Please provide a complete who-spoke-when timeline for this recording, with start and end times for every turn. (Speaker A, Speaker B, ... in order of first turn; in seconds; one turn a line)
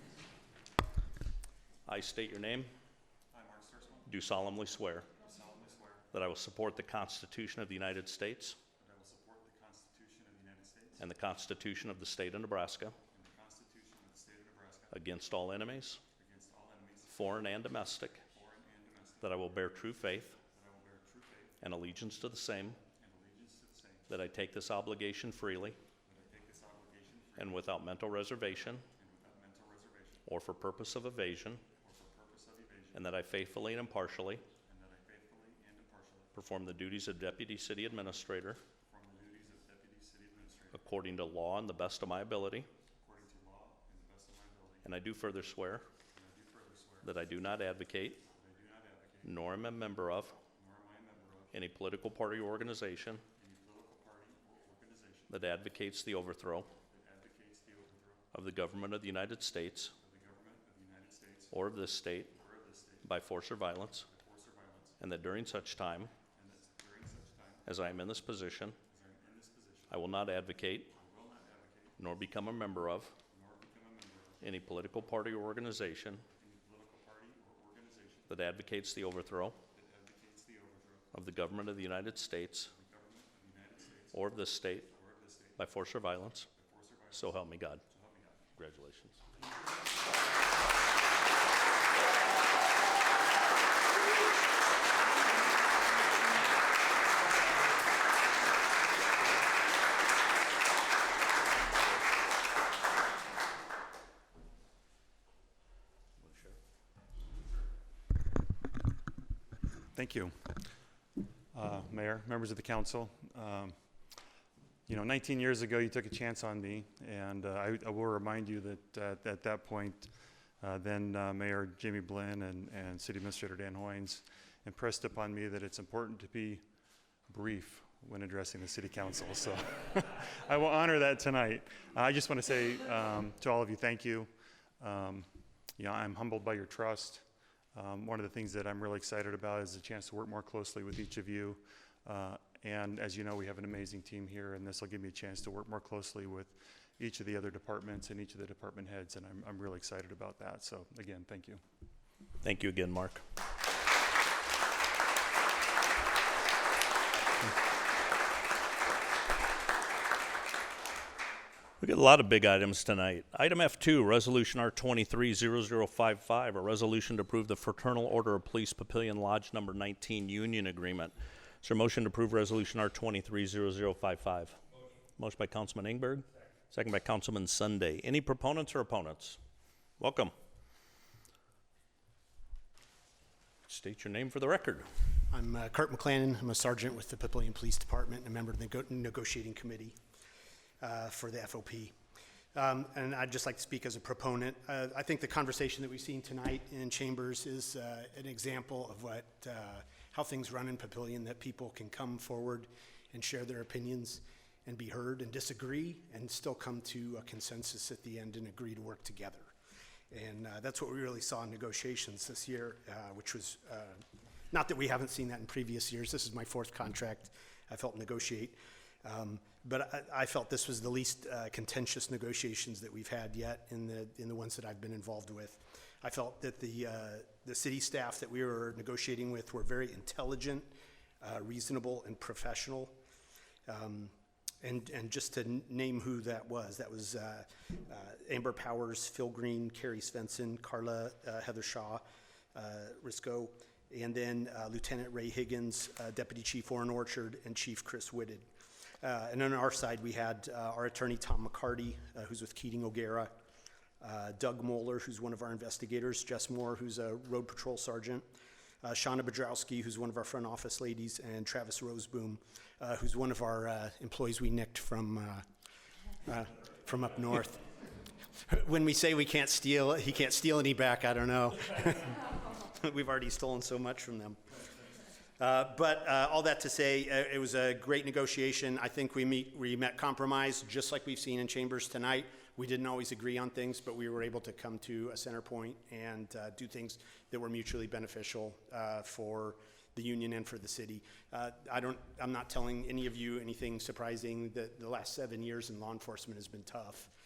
Speaker A: 1.9-2.7
Speaker B: 3.3-4.2
Speaker A: 4.1-5.1
Speaker B: 5.2-6.1
Speaker A: 6.1-8.6
Speaker B: 8.8-11.0
Speaker A: 11.0-13.0
Speaker B: 13.1-15.0
Speaker A: 14.9-16.0
Speaker B: 16.2-19.8
Speaker A: 17.1-18.2
Speaker A: 19.2-20.4
Speaker B: 20.4-21.6
Speaker A: 21.6-22.8
Speaker B: 22.8-24.1
Speaker A: 24.1-25.8
Speaker B: 26.0-27.8
Speaker A: 27.4-28.9
Speaker B: 28.9-30.2
Speaker A: 30.3-31.6
Speaker B: 31.7-33.1
Speaker A: 32.9-34.4
Speaker B: 34.6-36.3
Speaker A: 36.4-38.6
Speaker B: 38.9-40.9
Speaker A: 40.7-42.7
Speaker B: 43.0-44.9
Speaker A: 44.8-45.9
Speaker B: 46.1-47.2
Speaker A: 47.0-48.2
Speaker B: 48.3-49.4
Speaker A: 49.2-50.4
Speaker B: 50.5-51.5
Speaker A: 51.5-53.2
Speaker B: 53.3-55.4
Speaker A: 55.3-56.7
Speaker B: 56.8-58.3
Speaker A: 58.3-59.9
Speaker B: 60.0-61.5
Speaker A: 61.5-62.4
Speaker B: 62.4-63.3
Speaker A: 63.0-64.1
Speaker B: 63.8-65.0
Speaker A: 65.0-66.1
Speaker B: 66.3-68.0
Speaker A: 67.7-68.8
Speaker B: 68.8-70.1
Speaker A: 69.9-70.9
Speaker B: 70.9-72.0
Speaker A: 72.0-73.1
Speaker B: 73.3-74.4
Speaker A: 74.4-76.2
Speaker B: 76.3-78.3
Speaker A: 78.3-79.6
Speaker B: 79.7-81.1
Speaker A: 81.1-82.7
Speaker B: 82.7-84.3
Speaker A: 84.1-84.9
Speaker B: 84.9-88.5
Speaker A: 85.6-86.5
Speaker A: 87.1-87.8
Speaker A: 88.6-89.2
Speaker A: 106.2-106.5
Speaker B: 109.9-110.7
Speaker B: 111.5-113.8
Speaker B: 114.9-126.6
Speaker B: 127.3-151.6
Speaker A: 152.4-153.2
Speaker A: 161.8-174.6
Speaker A: 175.2-179.4
Speaker A: 180.0-180.3
Speaker A: 183.7-184.9
Speaker C: 185.3-190.0
Speaker C: 190.8-191.9
Speaker C: 192.5-209.5
Speaker C: 210.1-230.7
Speaker C: 231.2-232.9
Speaker C: 233.7-248.5
Speaker C: 249.0-253.3
Speaker C: 254.0-258.2
Speaker C: 258.8-265.4
Speaker C: 266.2-267.6
Speaker C: 268.4-274.6
Speaker C: 275.4-297.1